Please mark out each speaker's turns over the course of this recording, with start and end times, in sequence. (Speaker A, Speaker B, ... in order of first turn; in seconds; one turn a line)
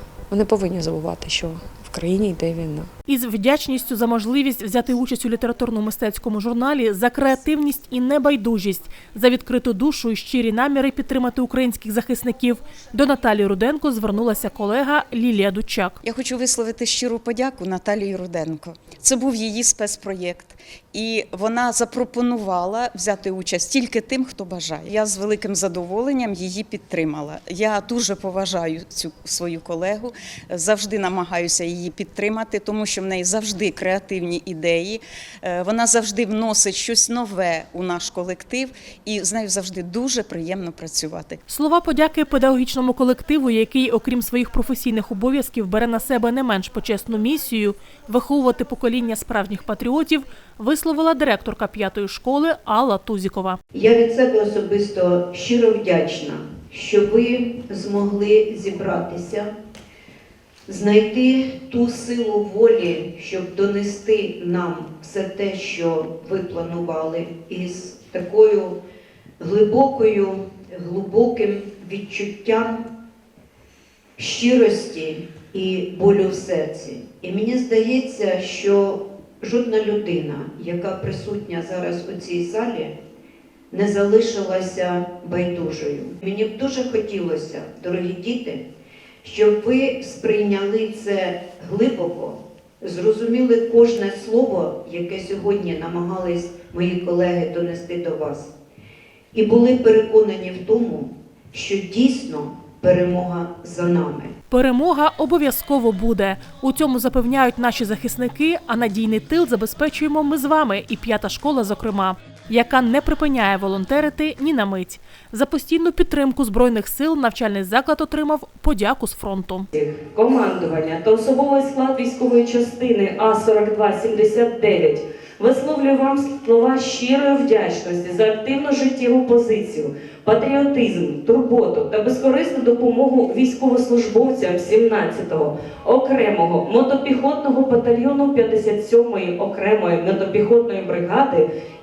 Speaker A: 0.3-2.9
Speaker B: 3.1-16.0
Speaker C: 16.0-41.4
Speaker B: 41.5-53.6
Speaker D: 53.7-59.5
Speaker D: 60.7-68.8
Speaker D: 69.4-72.8
Speaker D: 74.2-82.9
Speaker D: 83.7-88.6
Speaker D: 89.2-98.5
Speaker D: 99.3-104.3
Speaker B: 104.5-119.7
Speaker E: 119.7-141.4